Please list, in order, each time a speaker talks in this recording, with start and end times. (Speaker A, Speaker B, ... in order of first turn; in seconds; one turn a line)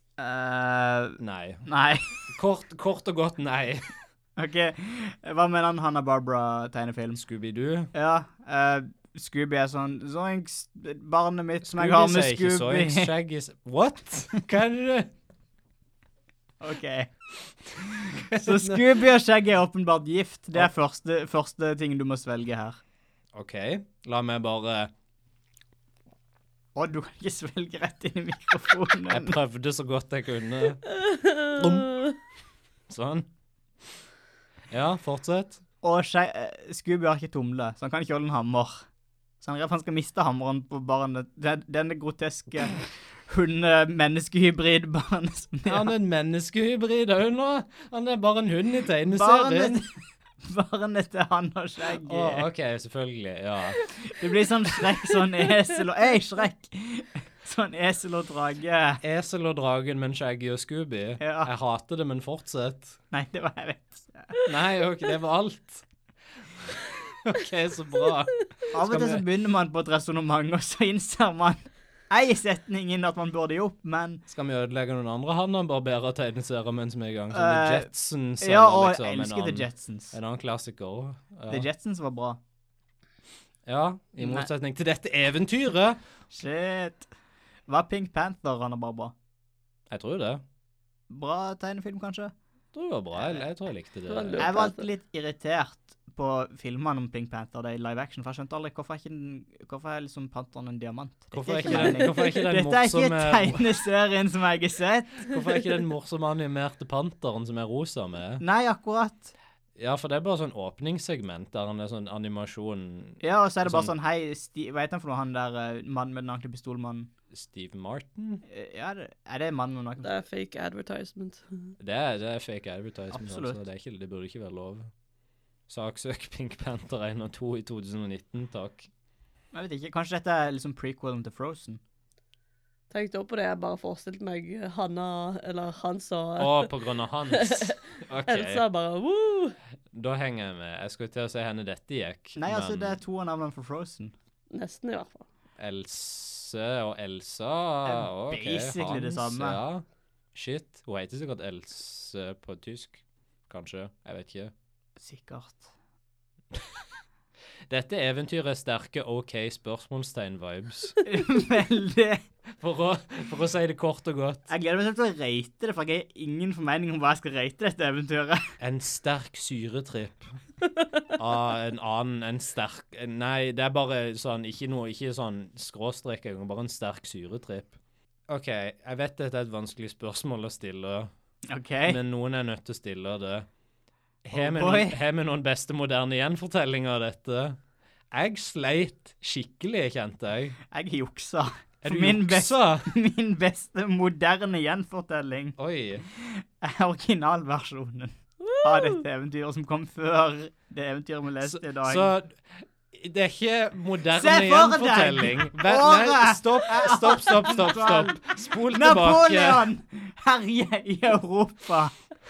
Speaker A: 0.2-2.1
Speaker B: 1.2-1.7
Speaker B: 2.3-3.9
Speaker A: 4.3-7.2
Speaker B: 7.2-7.9
Speaker A: 7.9-13.1
Speaker B: 11.6-15.1
Speaker A: 16.6-17.1
Speaker A: 17.8-22.8
Speaker B: 18.3-18.8
Speaker B: 23.3-24.9
Speaker A: 26.7-29.4
Speaker B: 29.1-30.9
Speaker C: 31.0-31.6
Speaker B: 31.4-31.9
Speaker B: 32.9-33.3
Speaker B: 34.7-35.6
Speaker A: 35.8-38.9
Speaker A: 39.4-45.9
Speaker B: 45.6-49.8
Speaker A: 49.1-52.5
Speaker B: 52.0-53.8
Speaker A: 53.9-59.0
Speaker B: 59.0-63.0
Speaker A: 61.2-61.5
Speaker A: 63.1-64.3
Speaker B: 64.4-65.8
Speaker B: 67.2-69.2
Speaker A: 68.7-74.2
Speaker B: 74.3-81.7
Speaker A: 77.3-80.2
Speaker A: 81.5-82.4
Speaker B: 83.7-86.0
Speaker A: 84.2-84.5
Speaker A: 86.3-87.1
Speaker A: 87.7-89.1
Speaker B: 89.9-90.4
Speaker A: 91.1-92.3
Speaker B: 92.7-94.5
Speaker A: 93.2-93.4
Speaker C: 94.1-94.9
Speaker A: 94.4-105.3
Speaker B: 101.3-103.6
Speaker C: 101.7-102.2
Speaker B: 105.2-108.4
Speaker A: 108.4-109.3
Speaker B: 109.8-113.9
Speaker A: 113.2-117.1
Speaker B: 117.3-118.4
Speaker A: 118.5-120.1
Speaker C: 120.0-121.7
Speaker B: 121.8-124.9
Speaker A: 123.1-123.6
Speaker B: 125.7-128.9
Speaker A: 129.5-131.8
Speaker C: 132.9-136.7
Speaker B: 136.4-138.6
Speaker C: 137.3-139.6
Speaker B: 139.9-143.0
Speaker A: 142.3-144.1
Speaker C: 144.5-145.2
Speaker B: 145.6-154.5
Speaker A: 147.8-149.6
Speaker A: 155.0-155.7
Speaker B: 157.7-161.0
Speaker A: 161.0-162.2
Speaker B: 162.6-164.5
Speaker A: 164.5-168.4
Speaker B: 168.6-170.4
Speaker B: 171.2-177.8
Speaker B: 178.3-181.1
Speaker A: 181.5-182.0
Speaker B: 181.8-183.5
Speaker B: 184.2-187.6
Speaker A: 184.3-185.0
Speaker B: 188.1-190.6
Speaker A: 190.7-195.6
Speaker B: 191.8-192.9
Speaker B: 195.6-196.0
Speaker A: 196.1-202.1
Speaker C: 198.4-199.0
Speaker B: 201.4-209.7
Speaker A: 204.1-211.9